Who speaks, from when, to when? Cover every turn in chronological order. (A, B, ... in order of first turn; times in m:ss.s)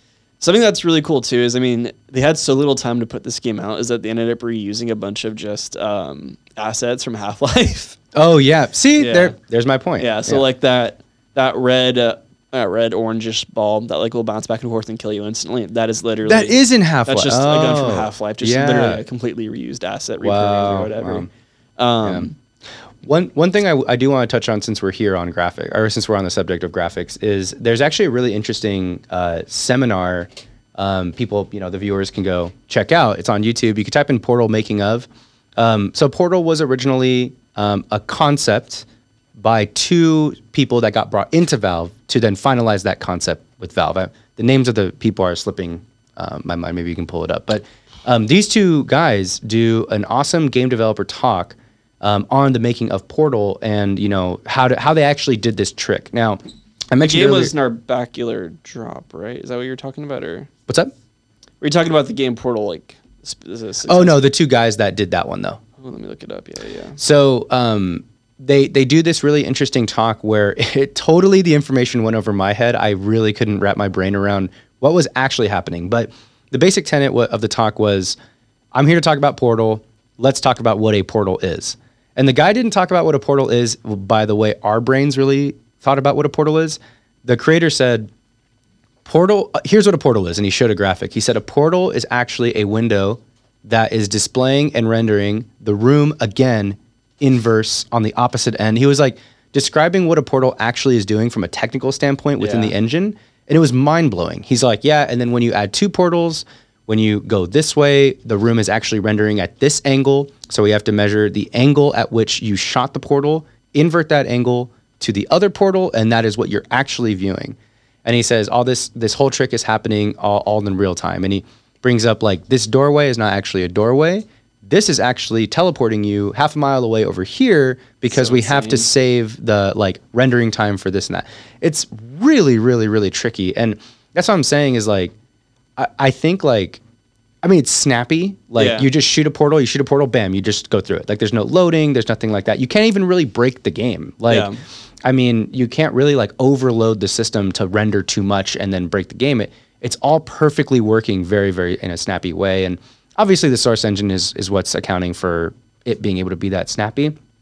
0:00.4-0:08.0 A
0:08.2-0:10.4 B
0:09.0-0:09.4 A
0:10.0-0:21.3 A
0:16.2-0:19.0 B
0:20.2-0:21.3 B
0:21.8-0:22.4 A
0:22.0-0:22.3 B
0:23.0-0:57.5 B
0:57.0-1:00.5 A
1:00.7-1:00.9 B
1:01.6-1:04.3 A
1:03.9-1:05.6 B
1:05.8-1:07.0 A
1:07.0-1:18.2 B
1:18.7-1:28.1 B
1:29.0-2:15.1 B
1:42.4-1:42.7 A
2:08.1-2:08.9 A
2:15.8-2:16.8 B
2:17.4-2:24.5 B
2:18.6-2:18.9 A
2:24.3-2:24.6 A
2:25.0-2:37.2 B